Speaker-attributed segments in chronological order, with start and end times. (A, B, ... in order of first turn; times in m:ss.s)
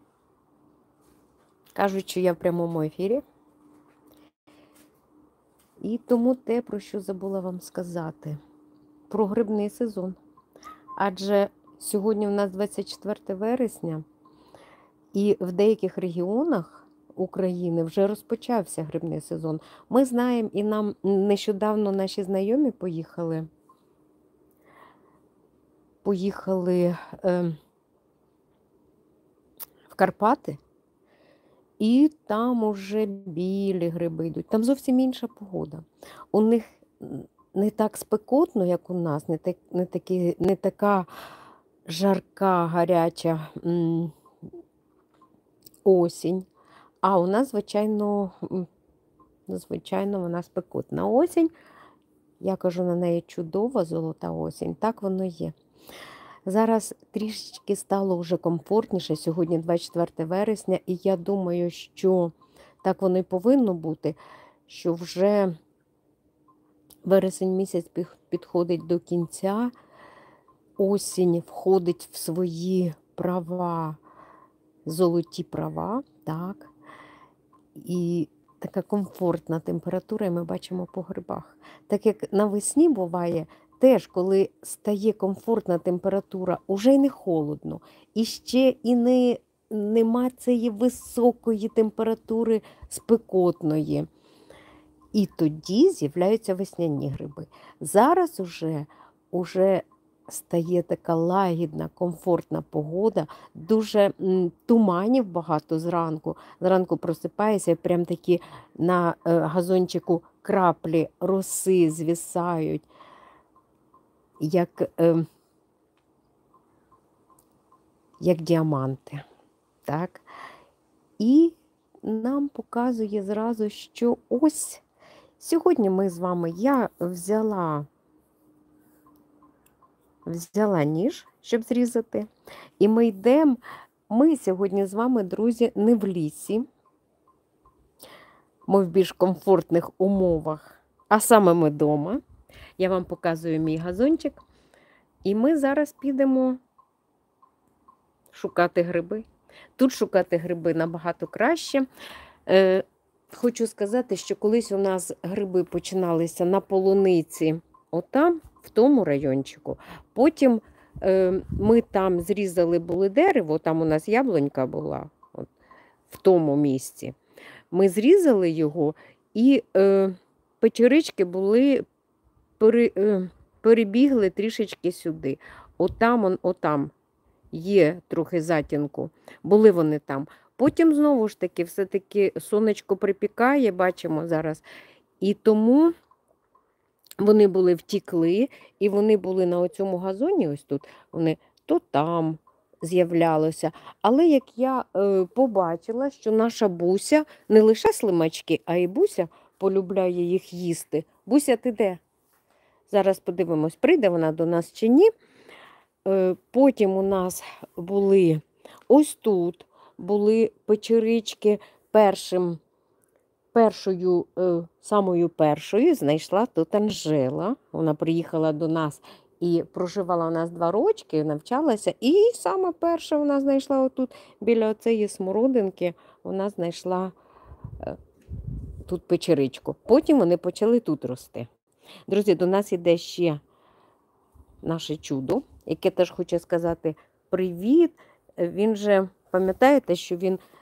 0:01.8-0:03.2 A
0:05.8-0:08.4 A
0:09.1-0:10.2 A
0:11.0-0:14.0 A
0:15.1-0:23.5 A
0:26.0-0:27.6 A
0:29.9-0:30.6 A
0:31.8-0:41.1 A
0:41.8-0:44.1 A
0:45.8-0:46.5 A
0:47.0-0:48.7 A
0:49.5-0:51.5 A
0:52.4-0:55.5 A
0:56.4-1:04.2 A
1:04.7-1:05.5 A
1:07.0-1:09.7 A
1:10.8-1:14.0 A
1:14.8-1:16.7 A
1:17.7-1:34.1 A
1:35.1-1:52.9 A
1:54.4-1:55.3 A
1:58.2-1:59.2 A
1:59.8-2:00.2 A
2:01.2-2:04.8 A
2:05.4-2:07.8 A
2:10.2-2:12.3 A
2:12.8-2:16.6 A
2:18.7-2:22.2 A
2:22.8-2:24.4 A
2:25.2-2:26.6 A
2:28.3-2:29.2 A
2:29.8-2:31.8 A
2:32.4-2:45.5 A
2:46.1-2:47.2 A
2:47.7-2:51.8 A
2:52.6-2:56.9 A
2:57.5-3:04.6 A
3:05.2-3:05.9 A
3:07.2-3:22.0 A
3:22.9-3:25.1 A
3:26.0-3:32.6 A
3:33.5-3:47.1 A
3:48.8-3:51.5 A
3:52.1-3:53.4 A
3:54.6-4:00.4 A